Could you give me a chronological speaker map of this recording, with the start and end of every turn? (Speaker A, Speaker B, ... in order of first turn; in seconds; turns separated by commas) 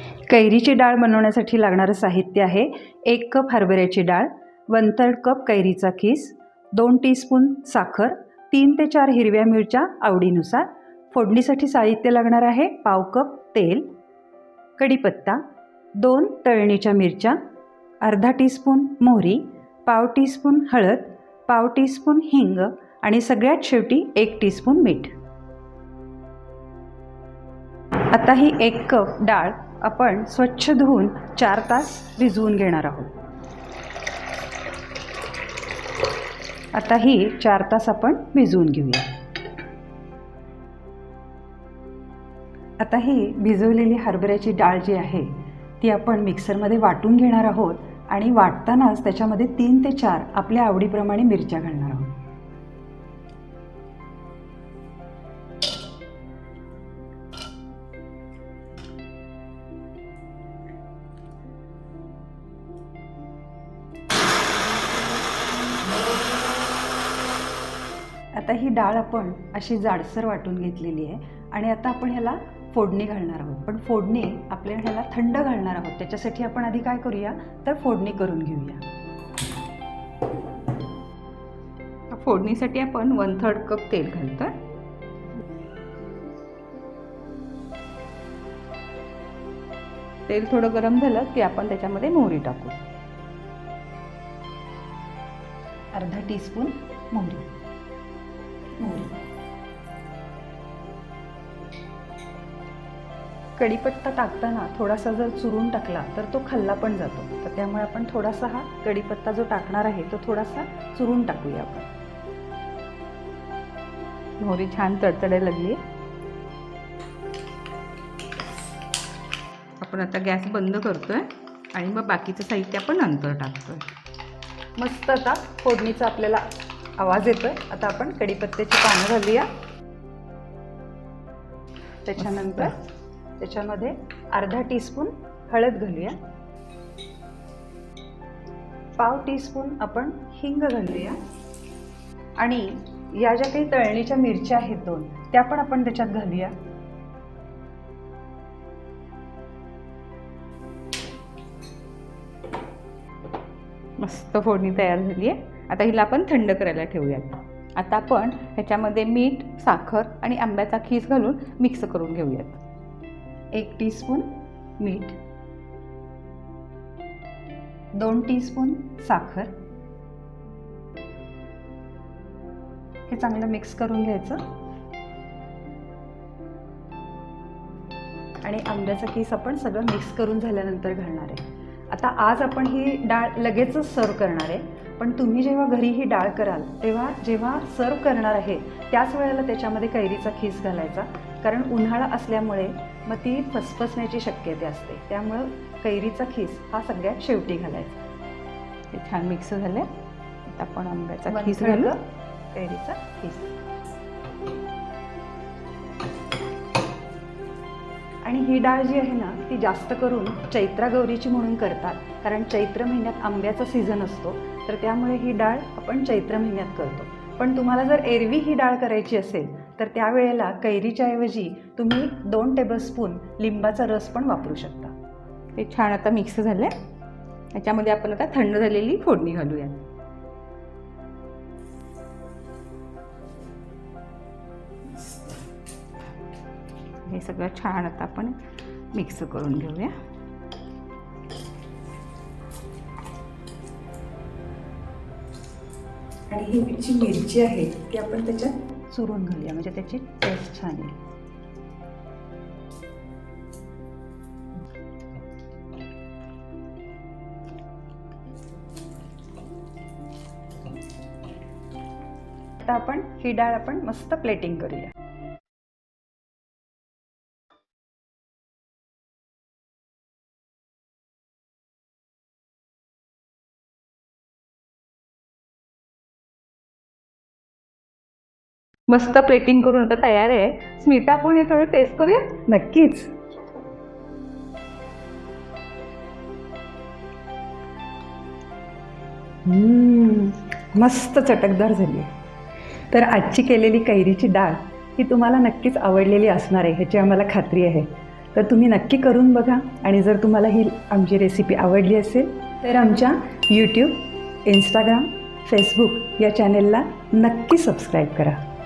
Speaker A: 0.3-13.9, Speaker A: 14.8-15.4, Speaker A: 16.0-17.4, Speaker A: 18.0-25.1, Speaker A: 28.1-33.1, Speaker A: 36.7-39.1, Speaker A: 42.8-52.1, Speaker A: 68.4-78.8, Speaker B: 82.1-84.5, Speaker B: 90.3-92.8, Speaker A: 95.9-97.5, Speaker A: 98.8-99.1, Speaker A: 103.6-111.9, Speaker B: 114.4-115.8, Speaker B: 119.8-123.8, Speaker A: 124.8-126.5, Speaker A: 127.0-129.5, Speaker A: 132.1-132.8, Speaker A: 133.4-136.2, Speaker A: 139.0-141.2, Speaker A: 142.4-146.5, Speaker B: 154.0-162.6, Speaker A: 163.5-165.2, Speaker A: 168.0-169.5, Speaker A: 173.1-174.4, Speaker A: 178.4-198.0, Speaker B: 198.9-199.9, Speaker B: 200.4-201.9, Speaker A: 201.3-203.5, Speaker A: 208.2-224.9, Speaker B: 225.6-226.7, Speaker B: 227.5-229.8, Speaker B: 237.1-238.4, Speaker B: 238.9-239.9, Speaker A: 246.3-251.0, Speaker A: 262.6-264.9, Speaker B: 278.9-282.3, Speaker A: 282.4-283.1, Speaker A: 289.4-292.1, Speaker A: 292.9-308.4